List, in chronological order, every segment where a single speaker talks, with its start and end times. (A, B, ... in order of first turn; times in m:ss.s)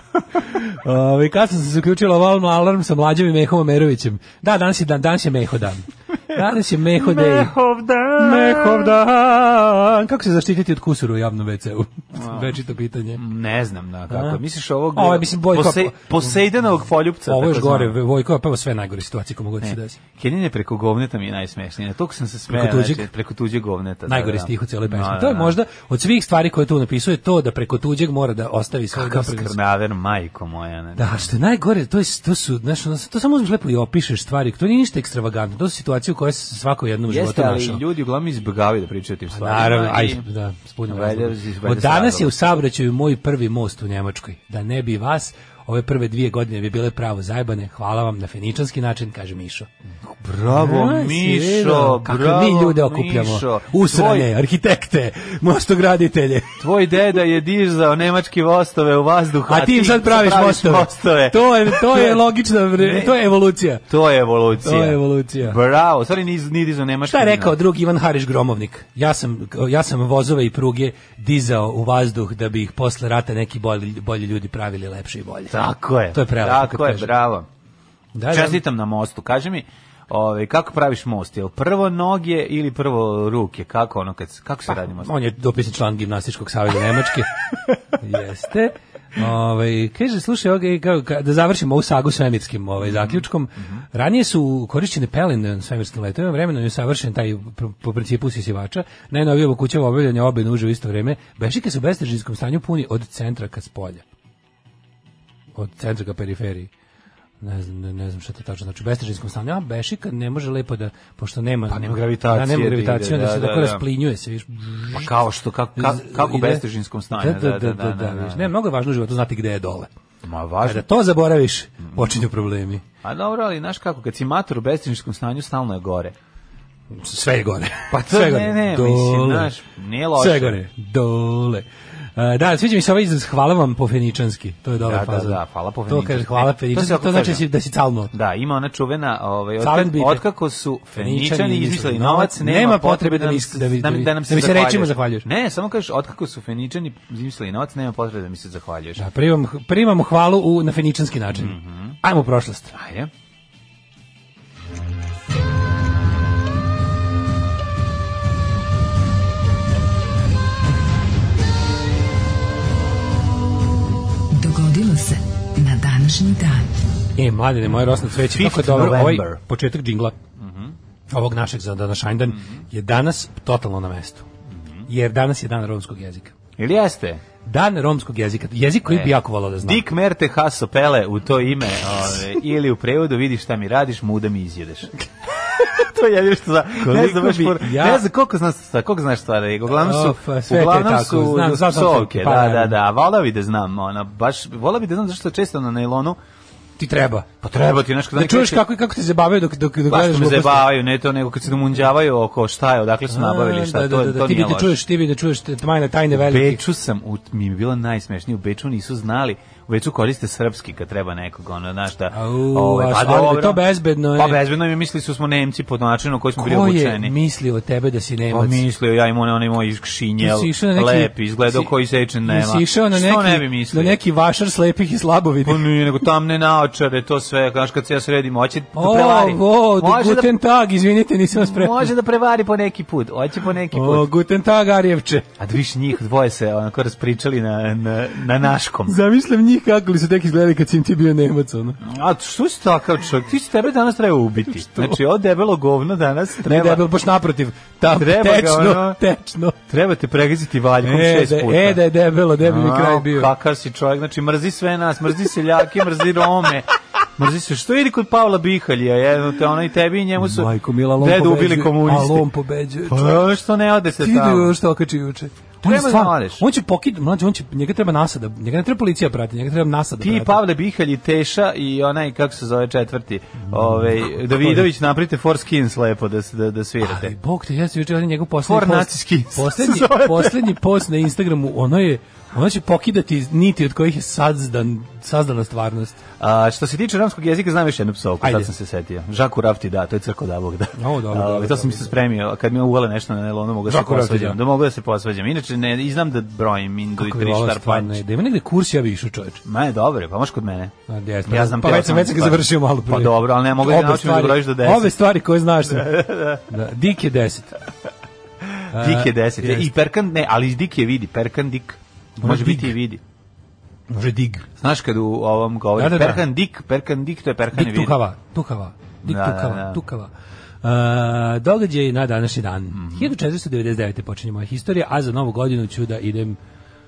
0:00.3-0:07.5 A
0:07.0-0:08.9 B
0:08.2-0:13.2 A
0:12.2-0:12.5 B
0:13.2-0:17.9 B
0:14.1-0:14.4 A
0:14.9-0:16.4 A
0:17.3-0:20.0 A
0:19.6-0:25.6 B
0:22.5-0:23.1 A
0:24.1-0:29.6 A
0:28.9-0:31.3 B
0:31.0-0:37.8 A
0:37.1-0:40.3 B
0:39.3-0:49.7 A
0:40.9-0:42.3 B
0:50.0-0:54.3 B
0:50.5-0:56.6 A
0:56.6-1:02.2 B
0:59.5-1:03.8 A
1:02.8-1:03.2 B
1:03.9-1:07.6 B
1:04.6-1:05.6 A
1:07.1-1:15.6 A
1:15.5-1:17.5 B
1:16.1-1:17.1 A
1:18.1-1:18.6 A
1:18.3-1:25.1 B
1:24.7-1:27.4 A
1:27.9-1:44.0 A
1:32.8-1:33.8 B
1:45.6-1:46.7 A
1:47.4-1:55.1 A
1:51.7-1:53.9 B
1:54.9-1:58.5 B
1:55.8-1:56.6 A
1:57.2-1:59.9 A
2:00.2-2:00.9 B
2:00.6-2:02.8 A
2:01.8-2:02.1 B
2:03.0-2:06.1 B
2:06.9-2:09.5 A
2:07.9-2:10.6 B
2:10.2-2:11.6 A
2:12.2-2:18.1 A
2:14.8-2:17.4 B
2:18.1-2:29.0 B
2:19.6-2:20.3 A
2:21.0-2:25.2 A
2:29.0-2:32.7 A
2:31.3-2:32.0 B
2:32.7-2:33.1 B
2:44.3-2:46.7 C
2:47.2-2:50.2 A
2:48.2-2:49.4 B
2:50.4-2:50.8 B
2:51.1-2:54.3 A
2:54.5-2:54.9 B
2:54.9-2:56.3 A
2:56.6-2:57.2 B
2:57.4-2:59.9 A
2:58.9-3:04.9 B
3:05.6-3:16.2 B
3:06.8-3:08.0 A
3:09.8-3:12.8 A
3:16.8-3:17.3 A
3:17.4-3:18.6 B
3:18.1-3:20.7 A
3:19.9-3:24.8 B
3:23.1-3:26.6 A
3:26.1-3:33.6 B
3:32.1-3:34.4 A
3:34.2-3:37.1 B
3:36.4-3:38.6 A
3:38.3-3:44.0 B
3:40.2-3:41.7 A
3:42.2-3:45.6 A
3:45.4-3:50.3 B
3:48.8-3:51.9 A
3:51.3-3:54.1 B
3:53.7-3:55.3 A
3:55.4-3:59.0 B
3:58.9-4:01.8 A
4:01.8-4:06.8 B
4:04.6-4:05.0 A
4:06.4-4:09.6 A
4:07.9-4:09.0 B
4:09.7-4:11.8 B
4:10.8-4:13.3 A
4:12.4-4:22.3 B
4:20.2-4:23.2 A
4:22.9-4:24.5 B
4:24.0-4:30.4 A
4:25.6-4:26.4 B
4:30.0-4:37.1 B
4:33.4-4:34.7 A
4:36.8-4:46.0 A
4:38.4-4:40.4 B
4:46.2-4:58.0 B
4:48.2-4:48.5 A
4:50.8-4:52.0 A
4:53.7-4:54.4 A
4:57.0-4:59.4 A
4:59.4-5:00.8 B
5:00.9-5:07.6 A
5:01.3-5:05.0 B
5:05.7-5:06.4 B
5:08.5-5:13.0 B
5:08.7-5:09.7 A
5:12.2-5:12.8 A
5:13.9-5:14.5 A
5:14.6-5:18.0 B
5:15.8-5:16.2 A
5:17.5-5:20.1 A
5:19.0-5:19.8 B
5:20.6-5:26.4 A
5:22.7-5:23.1 B